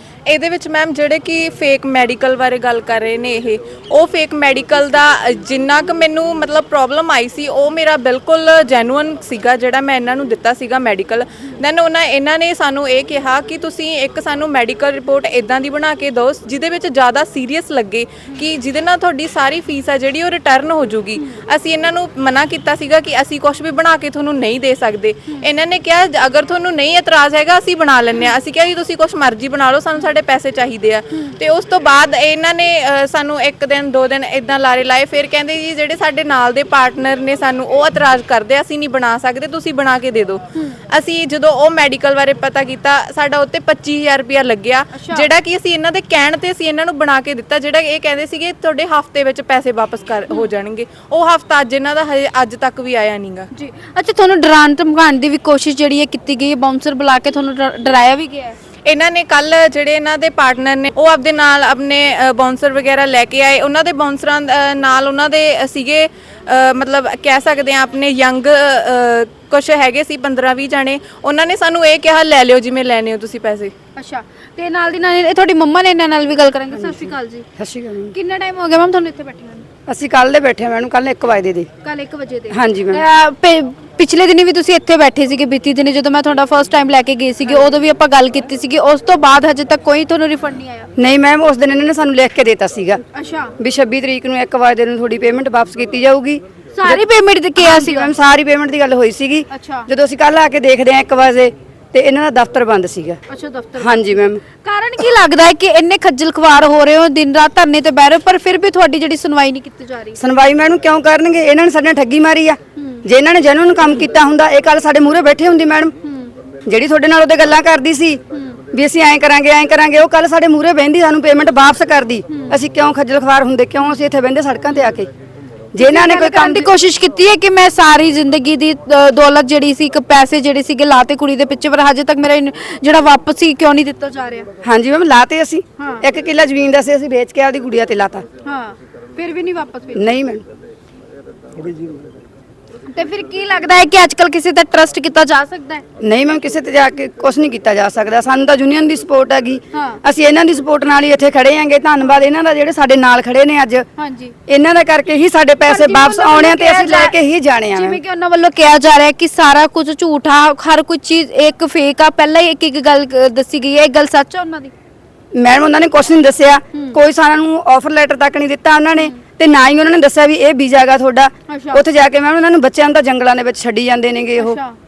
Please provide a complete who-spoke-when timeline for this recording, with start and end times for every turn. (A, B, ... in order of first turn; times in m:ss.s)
0:00.3-0:53.5 A
0:44.9-0:45.3 B
0:53.5-0:58.6 B
0:58.9-1:13.7 A
1:14.0-1:17.4 B
1:16.8-1:18.2 C
1:18.1-1:19.6 B
1:19.9-1:21.7 C
1:21.8-1:30.9 B
1:22.5-1:23.0 C
1:31.0-1:33.0 C
1:33.1-1:33.5 B
1:33.6-1:37.0 C
1:36.8-1:38.1 B
1:37.6-1:43.2 C
1:39.5-1:39.9 B
1:43.3-1:50.2 B
1:43.8-1:44.4 C
1:50.2-1:55.9 C
1:52.8-1:53.0 B
1:56.0-1:56.3 B
1:56.7-1:58.2 C
1:58.3-1:58.6 B
1:58.7-2:05.1 C
2:02.3-2:02.6 B
2:05.7-2:06.7 C
2:05.8-2:14.5 B
2:14.6-2:18.2 C
2:15.8-2:16.0 B
2:18.4-2:20.0 B
2:20.0-2:20.4 C
2:22.9-2:25.8 B
2:26.0-2:33.9 C
2:29.7-2:30.0 B
2:34.0-2:34.4 B
2:34.5-2:38.0 C
2:35.7-2:37.1 B
2:37.7-2:44.7 B
2:45.4-2:54.6 C
2:51.5-2:51.8 B
2:54.4-2:54.8 B